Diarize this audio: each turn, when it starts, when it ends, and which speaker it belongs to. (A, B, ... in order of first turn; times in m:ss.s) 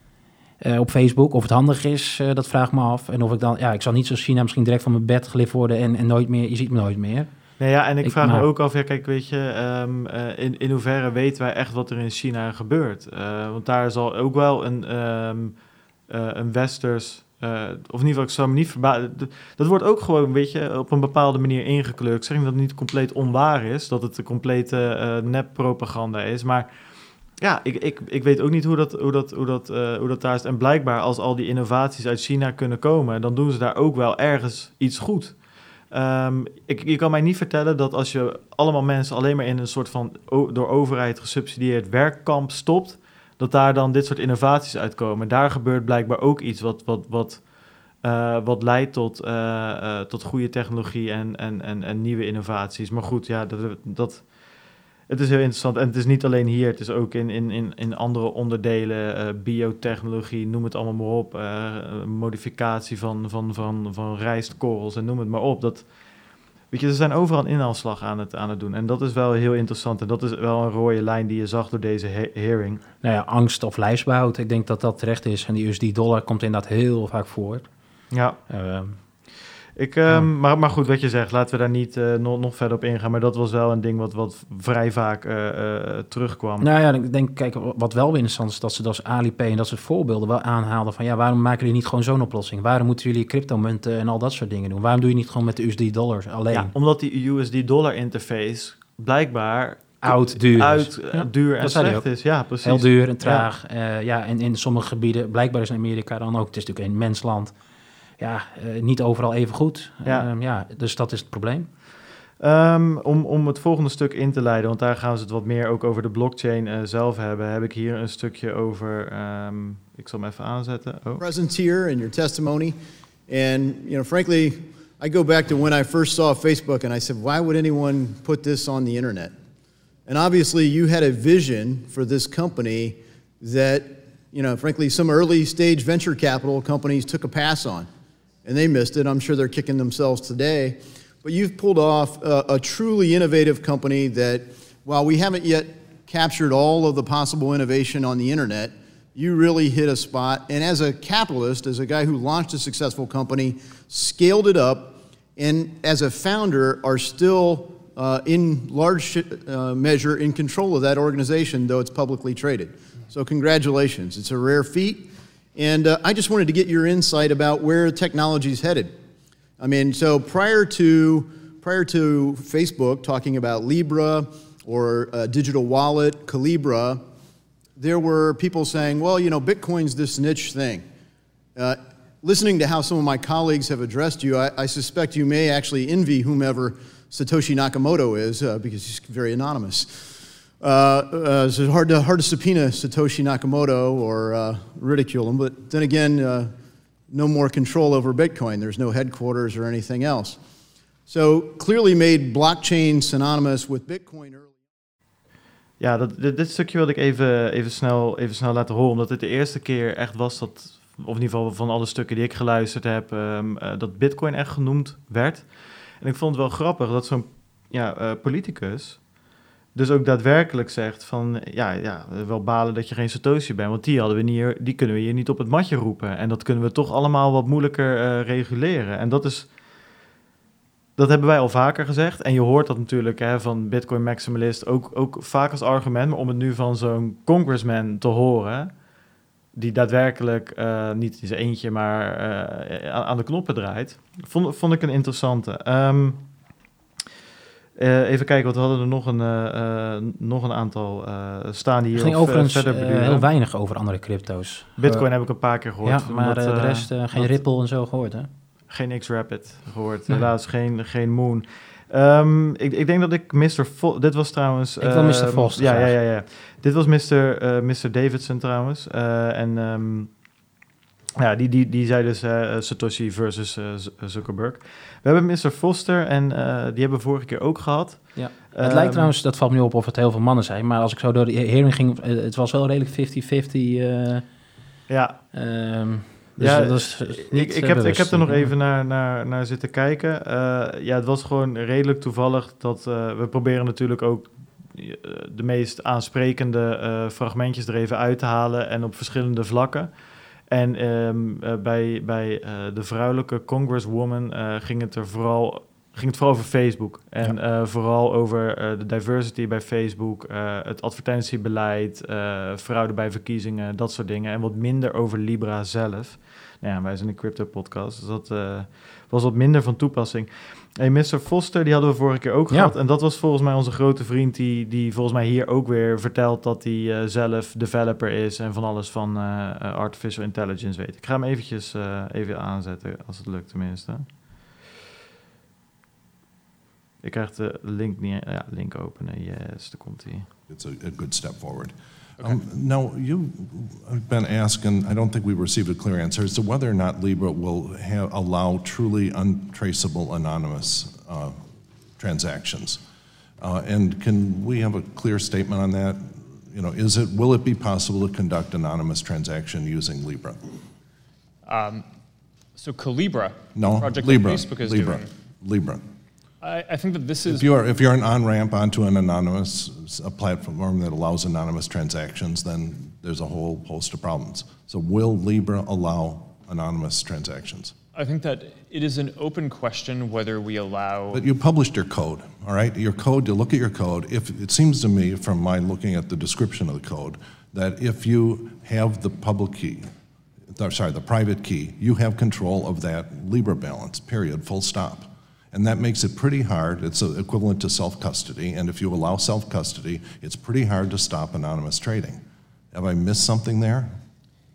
0:00.6-0:07.3 A
0:07.6-0:15.5 B
0:08.0-0:08.4 A
0:16.1-0:26.7 B
0:27.4-0:35.4 B
0:35.9-0:47.4 B
0:48.0-0:54.3 B
0:55.1-1:05.8 B
1:06.7-1:12.8 B
1:13.0-1:17.6 A
1:18.1-1:18.4 B
1:18.5-1:19.0 A
1:19.8-1:26.7 B
1:26.6-1:36.7 A
1:36.5-1:43.4 B
1:40.0-1:42.1 A
1:42.6-1:47.5 A
1:48.2-1:51.7 A
1:52.4-2:01.2 B
2:01.2-2:02.8 C
2:03.3-2:09.3 C
2:10.1-2:17.9 C
2:18.4-2:49.0 C
2:49.6-2:57.0 C
2:57.8-3:00.8 C
3:01.6-3:16.5 C
3:17.1-3:20.4 C
3:21.1-3:24.5 C
3:25.8-3:35.5 B
3:36.0-3:39.0 B
3:39.7-3:49.5 B
3:51.0-3:58.7 B
3:59.5-4:06.2 B
4:07.8-4:13.3 B
4:11.9-4:15.1 A
4:14.8-4:17.4 B
4:15.8-4:18.3 A
4:18.7-4:30.1 B
4:24.8-4:26.0 A
4:31.2-4:39.1 B
4:38.1-4:44.2 A
4:44.9-4:45.2 B
4:45.3-4:48.5 A
4:46.4-4:59.9 B
5:00.5-5:34.0 B
5:37.0-5:40.3 B
5:40.5-5:51.4 D
5:52.0-5:52.8 D
5:53.4-6:00.5 D
6:01.4-6:01.8 E
6:02.6-6:05.1 E
6:03.5-6:05.8 D
6:06.4-6:07.5 E
6:07.2-6:17.7 D
6:17.9-6:21.2 E
6:21.1-6:29.9 D
6:30.5-6:43.9 D